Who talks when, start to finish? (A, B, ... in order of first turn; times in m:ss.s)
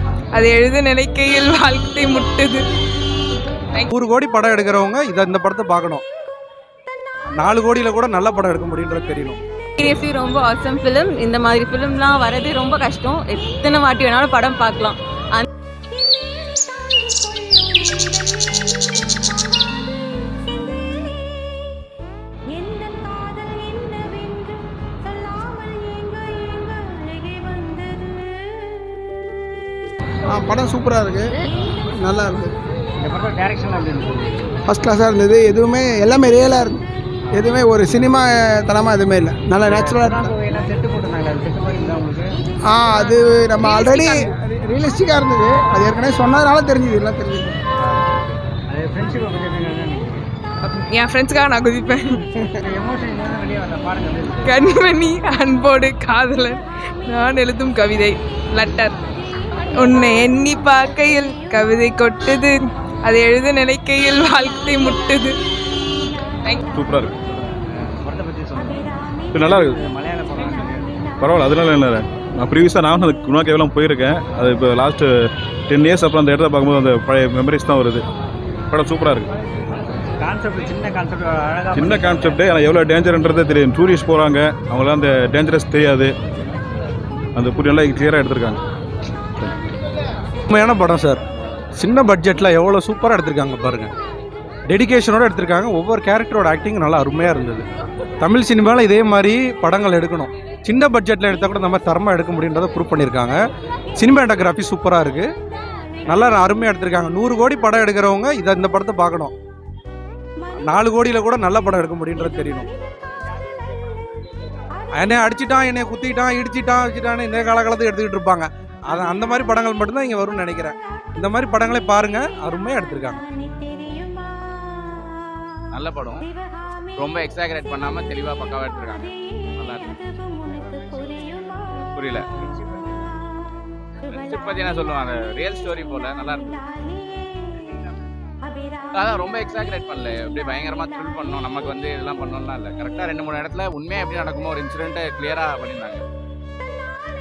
0:00.4-0:02.6 A
0:03.9-0:06.0 B
0:07.4-0:09.4 B
0:09.8-0:15.4 C
0:30.3-0:31.4 D
0:32.0-0:32.6 D
0:33.0-0:34.5 E
0:34.7-0:40.3 D
0:39.6-0:42.3 E
0:42.7-0:47.6 D
0:43.6-0:44.3 A
0:48.7-0:50.3 E
0:50.6-0:52.2 A
0:52.6-0:54.6 E
0:54.4-0:59.0 A
0:59.8-1:05.4 A
1:06.7-1:07.1 F
1:07.3-1:11.0 E
1:09.3-1:09.8 F
1:11.2-1:15.1 F
1:15.7-1:18.0 F
1:18.7-1:19.3 F
1:19.8-1:22.4 E
1:21.8-1:26.1 F
1:27.4-1:28.6 F
1:30.5-1:31.2 B
1:31.8-1:33.9 B
1:34.7-1:37.7 B
1:38.2-1:43.4 B
1:44.0-1:45.3 B
1:46.1-1:49.3 B
1:50.7-1:52.7 B
1:55.0-2:03.2 B
2:05.7-2:06.3 G
2:07.0-2:11.2 G
2:11.9-2:12.3 G
2:14.1-2:16.6 G
2:18.9-2:26.0 G